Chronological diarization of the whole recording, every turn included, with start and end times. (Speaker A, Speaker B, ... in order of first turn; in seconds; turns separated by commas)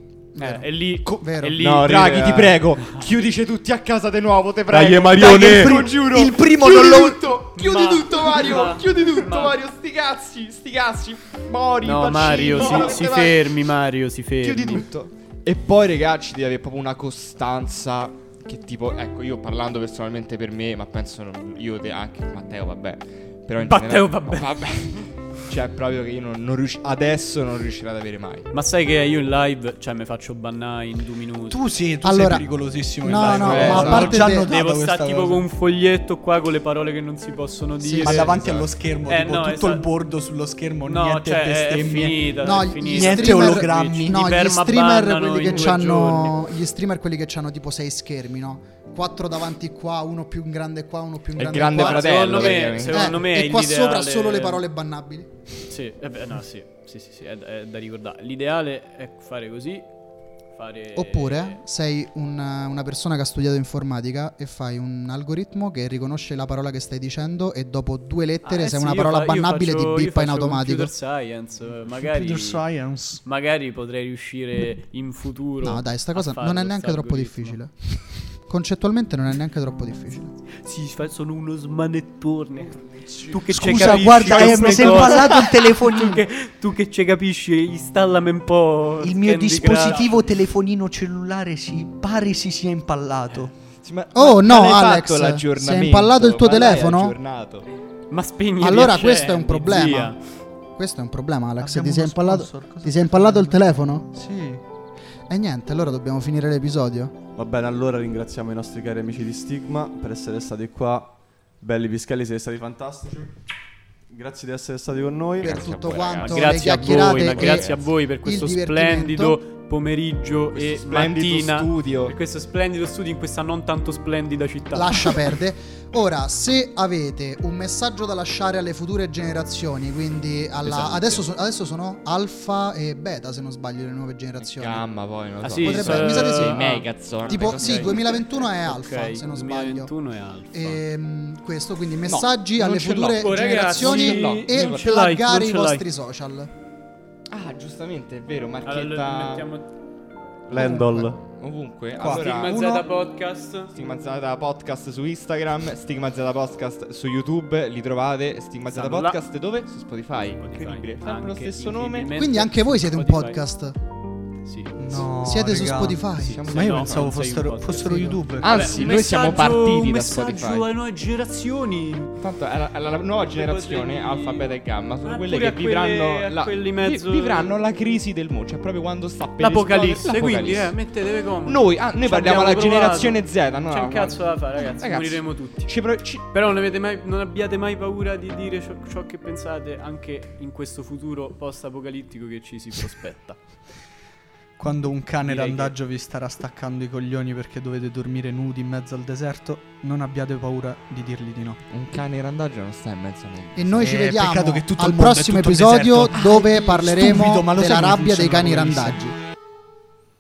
Speaker A: 0.3-1.6, Speaker B: 0.4-2.3, Speaker C: 1.1-13.7, Speaker D: 1.6-2.6, Speaker D: 4.7-5.8, Speaker E: 5.2-7.4, Speaker B: 7.5-9.6, Speaker E: 8.3-8.7, Speaker B: 11.8-14.9, Speaker C: 14.4-28.5, Speaker B: 23.6-24.8, Speaker B: 28.5-31.6, Speaker E: 31.5-35.5, Speaker A: 32.0-34.5, Speaker B: 33.1-39.9, Speaker C: 33.4-34.1, Speaker A: 37.8-38.2, Speaker E: 38.0-42.3, Speaker C: 38.3-38.7, Speaker B: 40.8-46.4, Speaker A: 42.4-55.3, Speaker E: 42.9-44.2, Speaker C: 51.4-53.3, Speaker B: 51.6-54.6, Speaker B: 55.7-59.9, Speaker B: 60.5-61.6, Speaker A: 61.0-70.9, Speaker B: 68.4-72.6, Speaker E: 72.0-73.2, Speaker B: 73.2-77.6, Speaker A: 75.6-80.3, Speaker B: 80.6-90.3, Speaker E: 83.5-86.2, Speaker C: 83.8-85.0, Speaker E: 89.0-93.5, Speaker C: 93.8-97.7, Speaker A: 94.2-97.2, Speaker B: 98.1-100.2, Speaker A: 98.6-100.2, Speaker A: 100.8-104.1, Speaker E: 101.6-104.6, Speaker A: 105.3-107.2, Speaker D: 107.3-113.3, Speaker D: 114.1-115.6, Speaker C: 115.4-117.9, Speaker A: 115.4-119.4, Speaker B: 116.2-125.3, Speaker C: 120.5-122.2, Speaker A: 124.7-134.8, Speaker C: 130.7-131.2, Speaker C: 134.4-138.2, Speaker B: 135.4-140.8, Speaker A: 135.7-139.9, Speaker A: 140.5-146.5, Speaker C: 142.1-144.8, Speaker B: 142.9-145.8, Speaker C: 147.3-149.5, Speaker B: 148.7-149.7, Speaker D: 150.5-151.2, Speaker A: 150.5-151.1, Speaker C: 151.3-152.7, Speaker E: 152.0-152.9, Speaker B: 152.0-153.7, Speaker C: 153.7-162.1, Speaker B: 158.7-159.2, Speaker B: 160.4-163.4, Speaker A: 162.2-163.8, Speaker B: 164.4-165.0, Speaker E: 164.8-166.0, Speaker A: 165.2-166.4, Speaker B: 166.2-172.2, Speaker C: 166.3-167.2, Speaker E: 166.5-168.7, Speaker C: 168.4-170.7, Speaker C: 172.2-180.8, Speaker B: 173.2-177.6, Speaker B: 179.4-193.4, Speaker C: 181.4-186.3, Speaker E: 194.6-201.6, Speaker B: 195.2-195.7, Speaker C: 201.7-204.0, Speaker A: 203.6-209.2, Speaker E: 203.8-209.0, Speaker C: 206.1-206.4